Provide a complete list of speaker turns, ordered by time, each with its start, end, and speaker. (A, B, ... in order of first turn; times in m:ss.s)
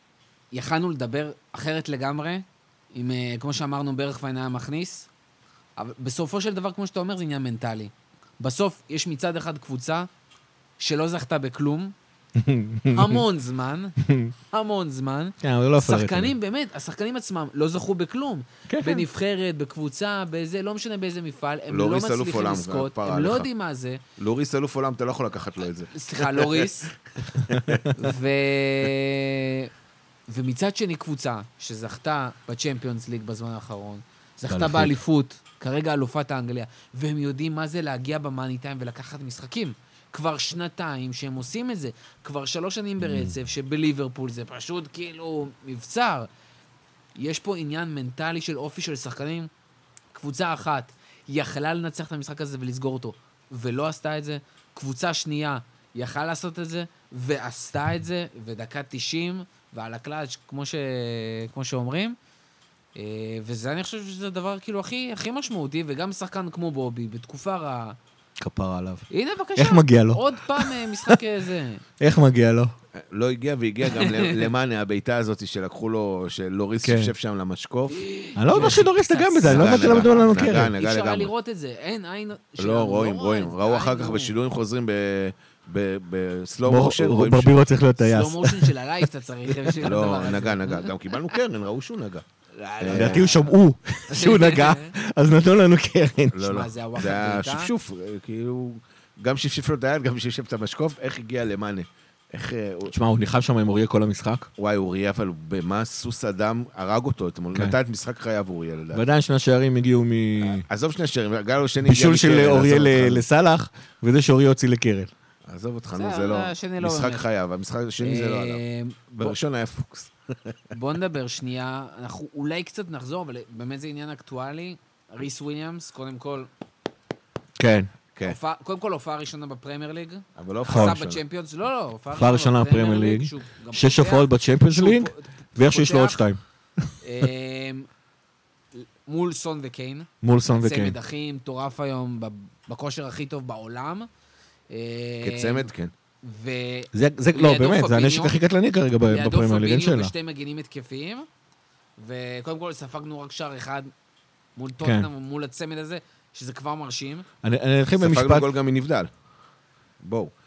0:00.5-0:05.1 A
0:05.8-0:10.1 A
0:10.8-0:11.9 A
0:12.4-0:13.2 B
0:12.9-0:14.0 A
0:14.0-0:14.3 B
0:14.5-0:24.0 A
0:15.4-0:16.3 B
0:18.7-0:19.0 B
0:21.7-0:23.5 C
0:24.2-0:27.9 C
0:25.9-0:26.9 A
0:27.9-0:29.7 A
0:30.3-0:46.3 A
0:34.5-0:35.0 B
0:43.0-0:43.3 B
0:47.2-0:49.5 A
0:50.1-1:02.2 A
1:03.0-1:08.0 A
1:08.4-1:11.2 B
1:09.1-1:11.8 A
1:12.0-1:12.7 B
1:12.9-1:18.0 C
1:13.8-1:14.5 A
1:16.8-1:17.1 B
1:17.9-1:24.3 A
1:18.4-1:20.7 B
1:18.6-1:18.8 C
1:19.4-1:21.3 C
1:22.6-1:27.7 C
1:26.6-1:28.7 B
1:28.0-1:30.9 A
1:29.8-1:32.2 C
1:32.5-1:33.5 A
1:32.8-1:33.3 C
1:32.9-1:36.6 B
1:34.1-1:34.9 A
1:36.3-1:42.9 C
1:36.4-1:37.7 A
1:42.9-1:44.5 B
1:44.6-1:49.0 C
1:48.9-1:50.6 B
1:50.4-1:53.2 C
1:51.8-1:55.1 B
1:55.4-2:00.7 C
1:55.9-1:57.2 A
1:58.0-1:59.3 A
2:00.7-2:06.5 A
2:07.6-2:07.9 B
2:08.2-2:16.2 A
2:10.4-2:11.2 C
2:10.7-2:11.0 B
2:12.1-2:16.9 B
2:17.0-2:17.9 A
2:18.7-2:24.1 A
2:20.2-2:20.9 B
2:24.7-2:25.7 A
2:25.2-2:25.9 C
2:26.2-2:28.3 A
2:26.9-2:30.1 B
2:29.1-2:31.3 A
2:32.0-2:33.9 A
2:34.6-2:37.2 A
2:34.8-2:35.1 B
2:37.4-2:38.5 B
2:38.0-2:39.1 C
2:40.0-2:40.3 C